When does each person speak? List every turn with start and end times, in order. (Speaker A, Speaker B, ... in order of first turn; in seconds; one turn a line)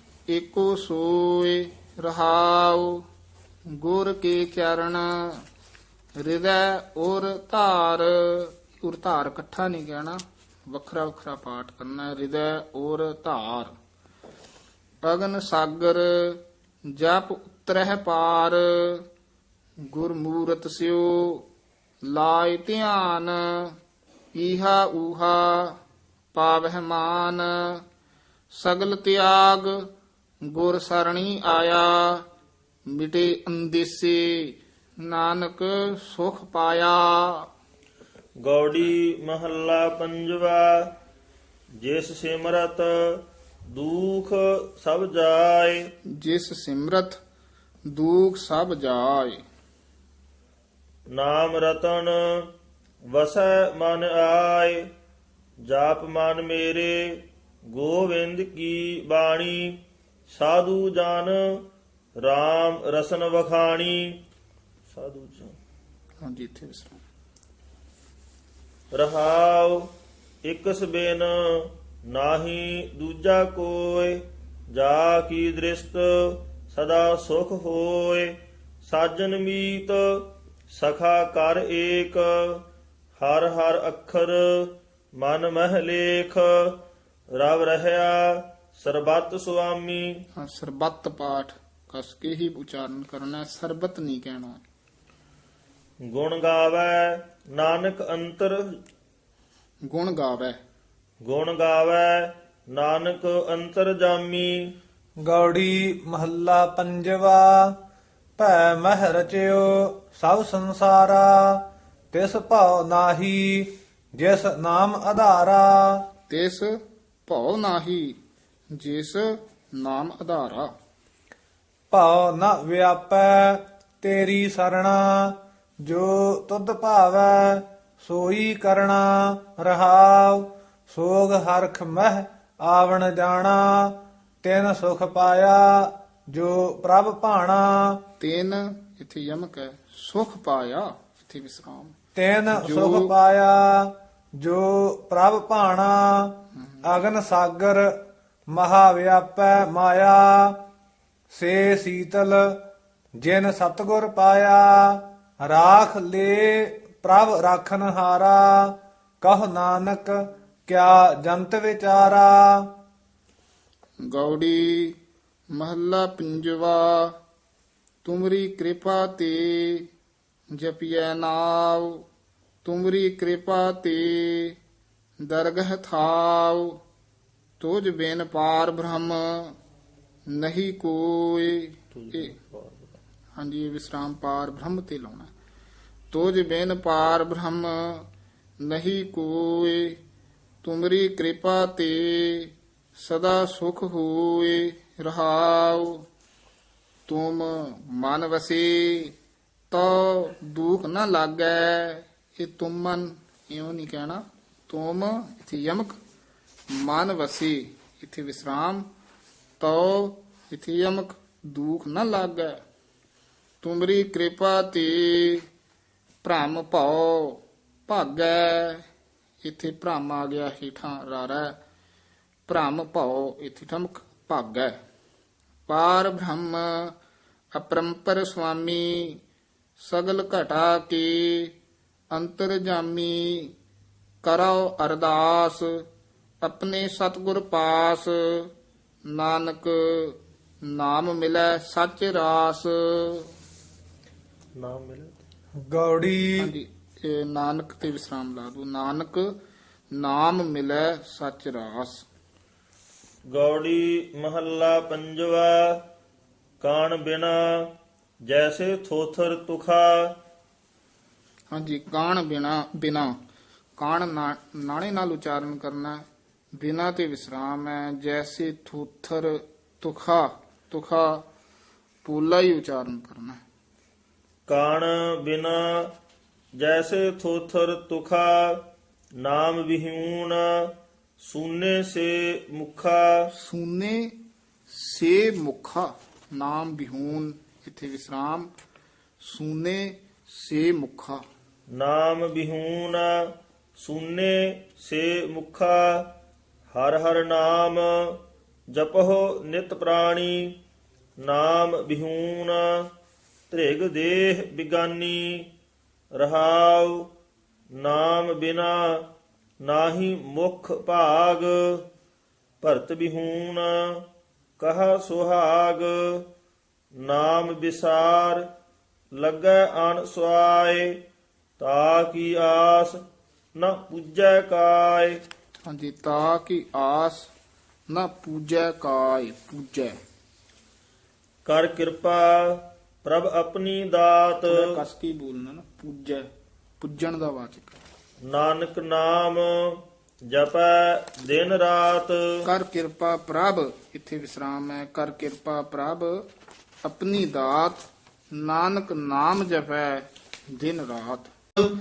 Speaker A: 0.3-3.0
Speaker A: 3.7-5.4
Speaker A: 6.2-13.7
Speaker A: 15.0-16.4
Speaker A: 16.9-19.0
Speaker A: 19.9-21.4
Speaker A: 22.1-23.8
Speaker A: 24.4-25.8
Speaker A: 26.3-27.8
Speaker A: 28.5-29.8
Speaker A: 30.4-32.2
Speaker A: 32.9-37.5
Speaker B: 38.4-40.9
Speaker B: 41.8-45.8
Speaker A: 46.1-47.2
Speaker A: 47.9-49.4
Speaker B: 51.1-52.5
Speaker B: 53.1-54.9
Speaker B: 55.6-61.6
Speaker B: 62.2-64.2
Speaker B: 64.9-65.5
Speaker A: 66.2-67.0
Speaker B: 68.9-69.9
Speaker B: 70.4-82.6
Speaker B: 83.2-86.8
Speaker B: 87.3-90.1
Speaker A: 90.4-94.6
Speaker B: 96.0-98.6
Speaker A: 99.9-100.6
Speaker B: 101.2-104.7
Speaker C: 105.2-107.7
Speaker C: 108.4-116.0
Speaker A: 116.3-118.2
Speaker A: 118.8-120.7
Speaker C: 121.9-138.0
Speaker A: 138.2-141.9
Speaker C: 142.1-147.9
Speaker A: 142.5-143.1
Speaker C: 148.5-150.6
Speaker C: 151.3-152.6
Speaker C: 153.2-162.7
Speaker A: 164.1-164.9
Speaker A: 165.5-167.2
Speaker A: 168.0-169.9
Speaker A: 170.5-172.0
Speaker A: 172.6-174.6
Speaker A: 175.2-176.8
Speaker A: 177.6-179.6
Speaker A: 180.3-182.3
Speaker B: 181.9-182.9
Speaker A: 183.3-185.3
Speaker A: 186.1-188.1
Speaker A: 188.6-190.0
Speaker A: 190.6-196.1
Speaker A: 197.1-199.1
Speaker A: 199.7-206.0
Speaker A: 206.7-208.8
Speaker A: 209.6-212.6
Speaker A: 213.6-215.5
Speaker A: 216.2-218.8
Speaker A: 219.4-221.5
Speaker A: 222.5-224.8
Speaker A: 225.7-226.9
Speaker A: 227.5-229.2
Speaker A: 229.8-231.5
Speaker A: 232.1-233.5
Speaker A: 234.2-235.7
Speaker A: 236.4-238.5
Speaker A: 239.1-240.2
Speaker A: 240.7-243.3
Speaker B: 244.6-245.2
Speaker C: 245.6-246.5
Speaker A: 246.4-249.3
Speaker A: 249.9-252.0
Speaker B: 253.3-255.8
Speaker B: 256.6-257.7
Speaker B: 258.3-260.1
Speaker A: 261.5-263.1
Speaker A: 263.8-266.0
Speaker A: 266.6-271.2
Speaker A: 272.0-273.4
Speaker B: 274.5-275.9
Speaker B: 276.6-278.6
Speaker B: 279.2-283.2
Speaker A: 283.3-284.1
Speaker A: 284.7-288.5
Speaker A: 289.2-291.2
Speaker B: 291.7-293.2
Speaker B: 293.8-296.1
Speaker B: 296.7-298.2
Speaker B: 298.7-300.5
Speaker B: 301.2-302.9
Speaker B: 303.5-305.5
Speaker B: 306.1-307.1
Speaker B: 307.8-309.1
Speaker B: 309.6-311.8
Speaker B: 312.6-314.0
Speaker B: 314.6-316.2
Speaker B: 317.0-318.5
Speaker B: 319.2-321.0
Speaker B: 321.6-323.0
Speaker B: 323.6-325.2
Speaker A: 325.6-327.3
Speaker A: 327.9-329.9
Speaker B: 331.4-334.6
Speaker A: 334.4-336.2
Speaker A: 336.8-337.8
Speaker B: 338.3-342.2
Speaker A: 342.4-346.2
Speaker A: 346.8-351.3